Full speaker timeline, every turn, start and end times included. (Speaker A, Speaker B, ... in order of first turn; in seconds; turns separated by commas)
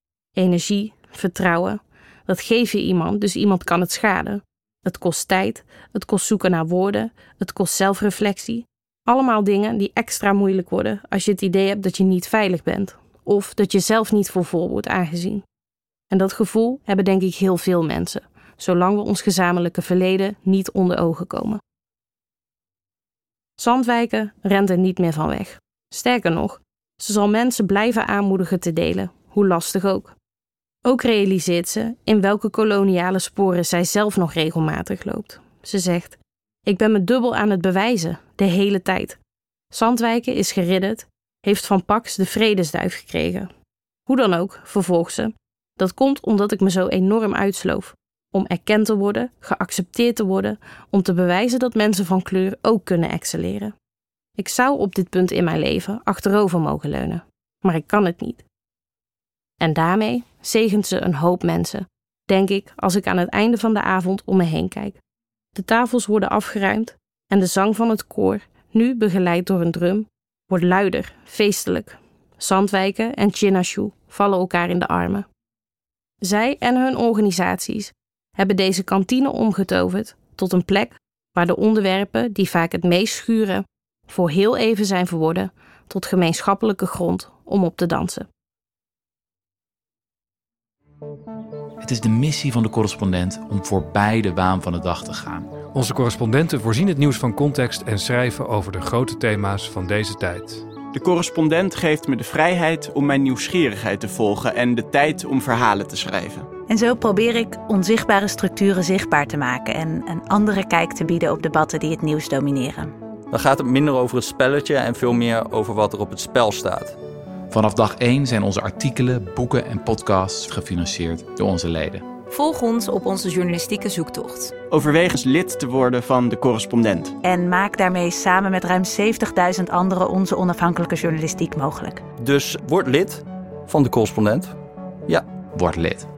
Speaker A: 0.4-15.4, Speaker A: 16.1-21.6, Speaker A: 23.6-30.1, Speaker A: 30.9-39.2, Speaker A: 39.7-43.5, Speaker A: 44.1-53.7, Speaker A: 54.4-58.5, Speaker A: 59.6-65.0, Speaker A: 65.5-75.3, Speaker A: 76.2-88.3, Speaker B: 91.8-95.5, Speaker C: 95.7-100.6, Speaker D: 100.9-106.5, Speaker E: 106.7-112.9, Speaker F: 113.3-116.9, Speaker B: 117.5-122.0, Speaker G: 122.3-124.5, Speaker D: 124.7-127.1, Speaker E: 127.2-132.0, Speaker F: 132.2-133.1, Speaker F: 133.7-134.5, Speaker B: 135.5-136.1